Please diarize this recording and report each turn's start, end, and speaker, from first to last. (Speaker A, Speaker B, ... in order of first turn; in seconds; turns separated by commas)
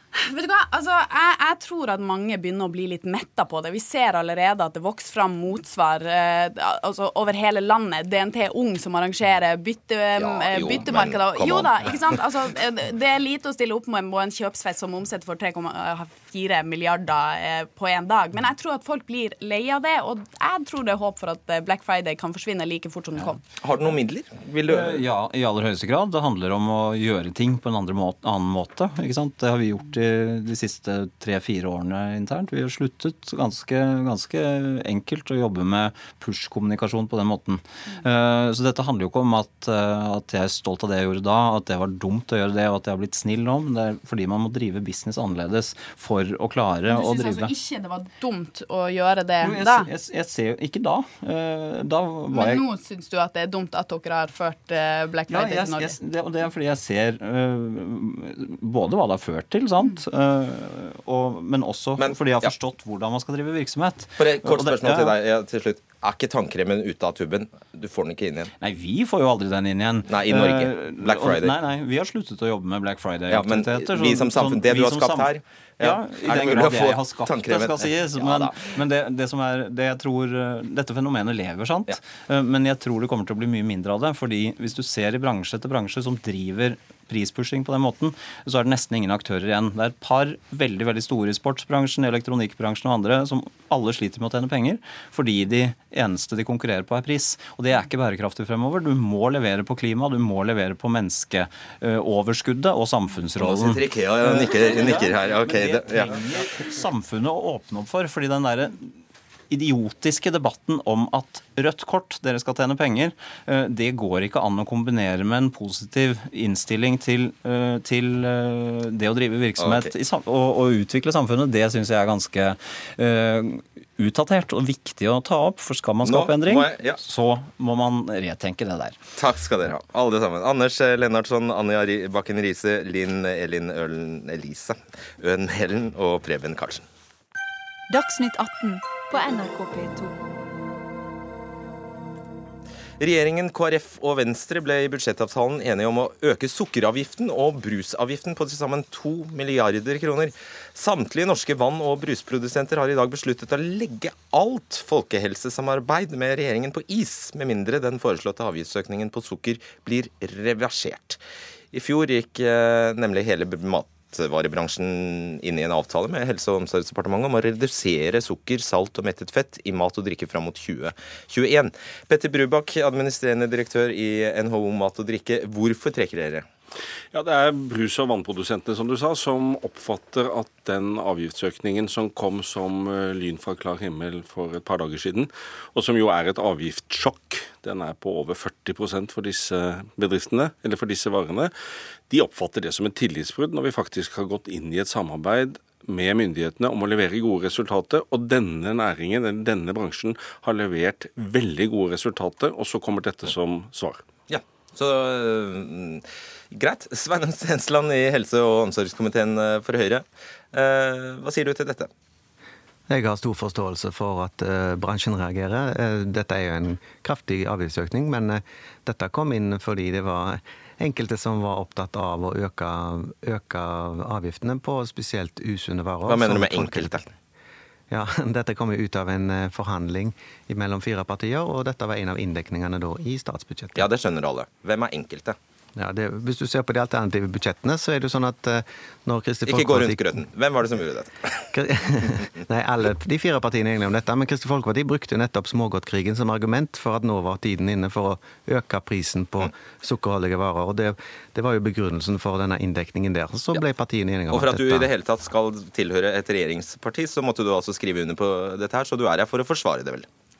Speaker A: 0.1-23.4, Speaker B: 10.2-12.0, Speaker B: 23.6-25.0, Speaker C: 24.6-47.5, Speaker A: 46.9-49.9, Speaker C: 49.4-52.7, Speaker A: 52.3-56.0, Speaker C: 55.3-65.2, Speaker B: 62.0-62.5, Speaker B: 64.2-68.5, Speaker C: 68.6-108.9, Speaker B: 70.1-71.5, Speaker B: 73.3-78.7, Speaker B: 103.4-106.2, Speaker C: 109.5-129.0, Speaker B: 119.6-119.9, Speaker B: 126.0-127.0, Speaker B: 129.2-136.8, Speaker D: 137.9-140.1, Speaker B: 143.0-161.2, Speaker B: 161.7-176.4, Speaker E: 177.1-191.5, Speaker E: 192.1-204.0, Speaker B: 204.3-211.9, Speaker F: 212.9-227.0, Speaker B: 226.0-227.1, Speaker F: 227.9-233.8, Speaker B: 233.7-235.3, Speaker F: 235.8-240.2, Speaker B: 239.4-241.4, Speaker F: 241.5-254.9, Speaker B: 254.3-260.1